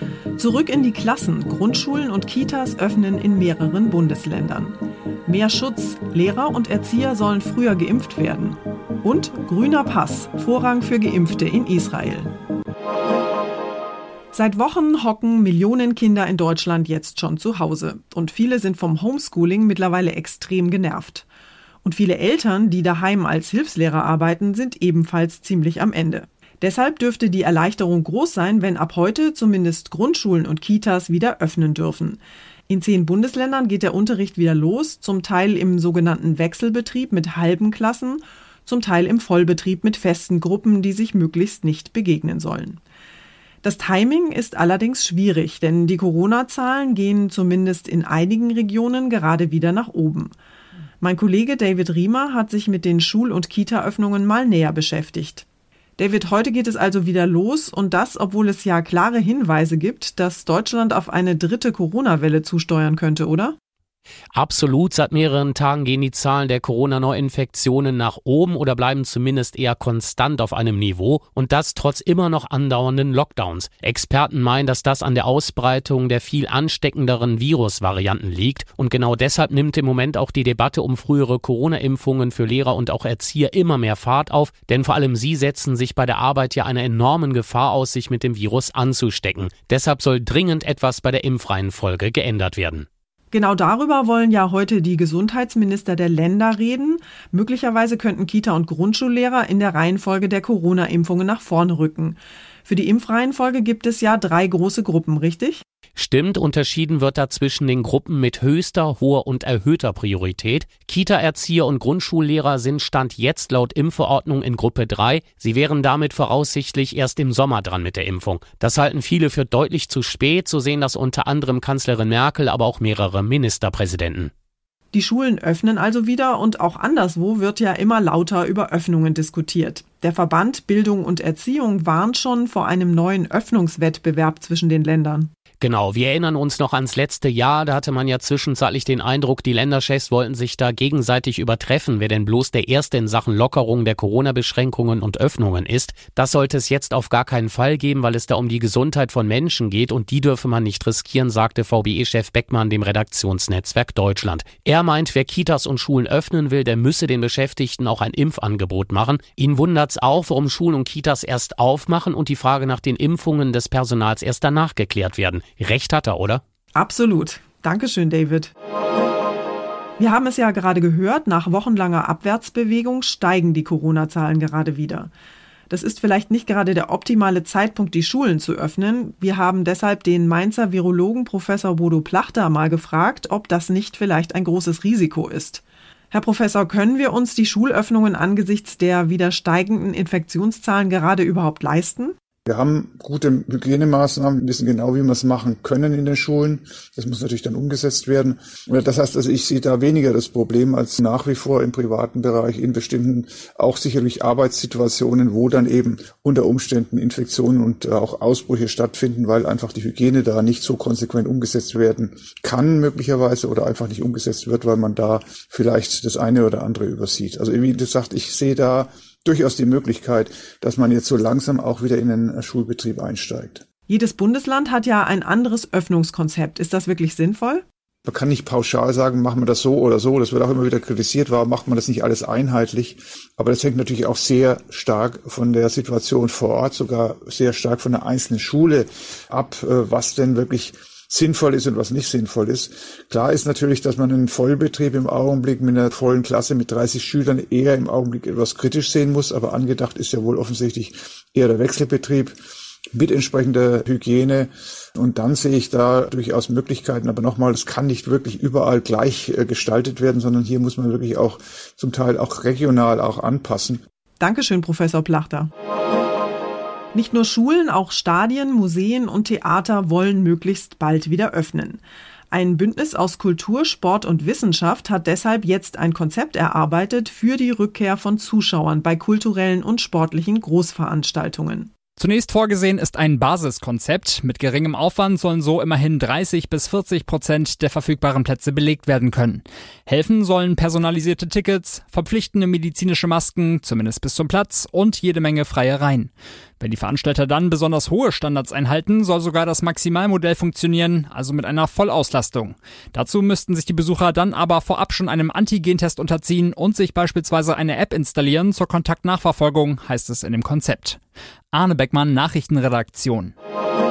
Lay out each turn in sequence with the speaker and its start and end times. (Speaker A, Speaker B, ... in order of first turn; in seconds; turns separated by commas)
Speaker A: 0.4-12.3, Speaker A: 14.3-21.3, Speaker A: 21.8-42.8, Speaker A: 43.6-50.3, Speaker A: 51.0-55.5, Speaker A: 56.0-63.5, Speaker B: 64.3-92.9, Speaker A: 93.3-105.6, Speaker B: 106.0-124.3, Speaker A: 124.9-135.3, Speaker B: 135.6-166.4, Speaker A: 166.8-168.5, Speaker A: 170.0-175.1, Speaker A: 175.7-192.2, Speaker C: 192.5-223.6, Speaker A: 223.9-227.6, Speaker C: 228.1-252.3, Speaker C: 252.9-263.8, Speaker A: 264.2-265.5, Speaker A: 266.9-281.7, Speaker D: 282.0-311.0, Speaker D: 311.5-313.3